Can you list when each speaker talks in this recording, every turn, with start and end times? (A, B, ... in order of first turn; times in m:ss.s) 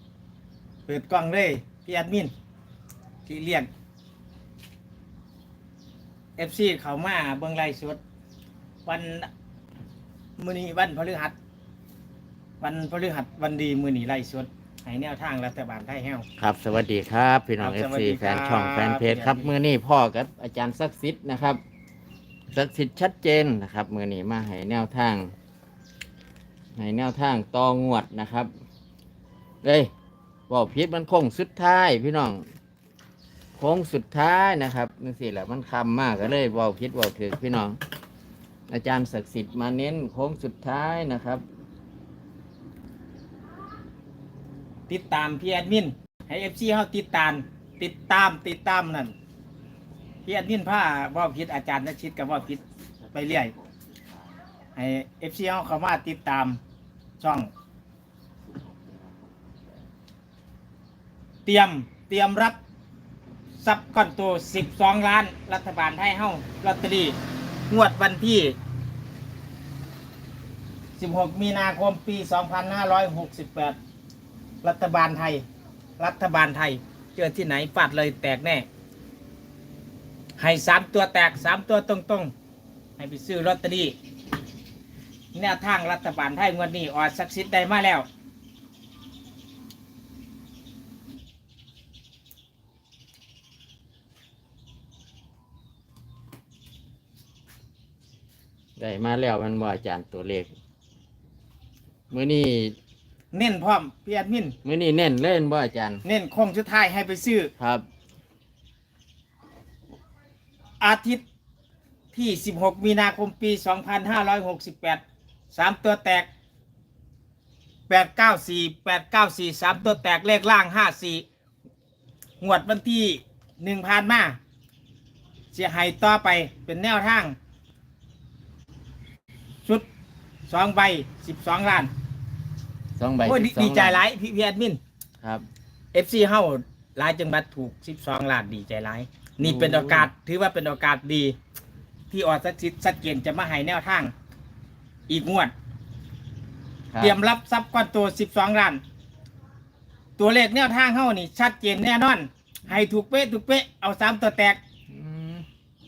0:00.9-0:02.3 A
0:03.2-0:03.7 A
0:06.4-0:08.0 A
0:08.8-0:09.3 A
0:10.4-0:11.3 A
0:12.6-0:16.2 A
0:16.4-0:21.6 B
0:17.6-0:19.5 A
0:22.5-0:25.3 B
0:26.8-0:28.5 B
0:29.6-0:29.9 B
0:30.5-0:32.5 B
0:33.6-0:37.8 B
0:38.7-0:41.4 B
0:44.9-0:49.1 A
0:50.2-0:52.6 A
0:53.1-0:54.3 B
0:53.1-0:53.5 A
0:54.8-0:56.6 A
0:57.2-0:57.5 A
0:58.5-0:59.5 B
1:01.4-1:02.6 A
1:03.6-1:07.2 A
1:07.7-1:08.5 A
1:11.0-1:13.8 A
1:14.6-1:15.4 A
1:16.0-1:18.6 A
1:20.4-1:22.3 A
1:23.0-1:23.9 A
1:25.3-1:28.0 A
1:38.8-1:40.5 B
1:42.1-1:42.8 B
1:43.3-1:44.5 A
1:44.6-1:46.0 B
1:46.0-1:47.5 A
1:47.6-1:47.8 B
1:50.8-1:51.2 A
1:52.1-1:55.0 A
1:55.5-1:56.3 A
1:57.9-2:01.2 A
2:02.4-2:04.4 A
2:05.5-2:07.4 A
2:10.5-2:11.9 A
2:13.0-2:14.0 B
2:13.2-2:14.8 A
2:15.9-2:21.3 A
2:19.4-2:20.1 B
2:22.1-2:24.1 A
2:25.1-2:25.5 A
2:27.0-2:28.8 A
2:30.2-2:34.6 A
2:34.9-2:35.4 B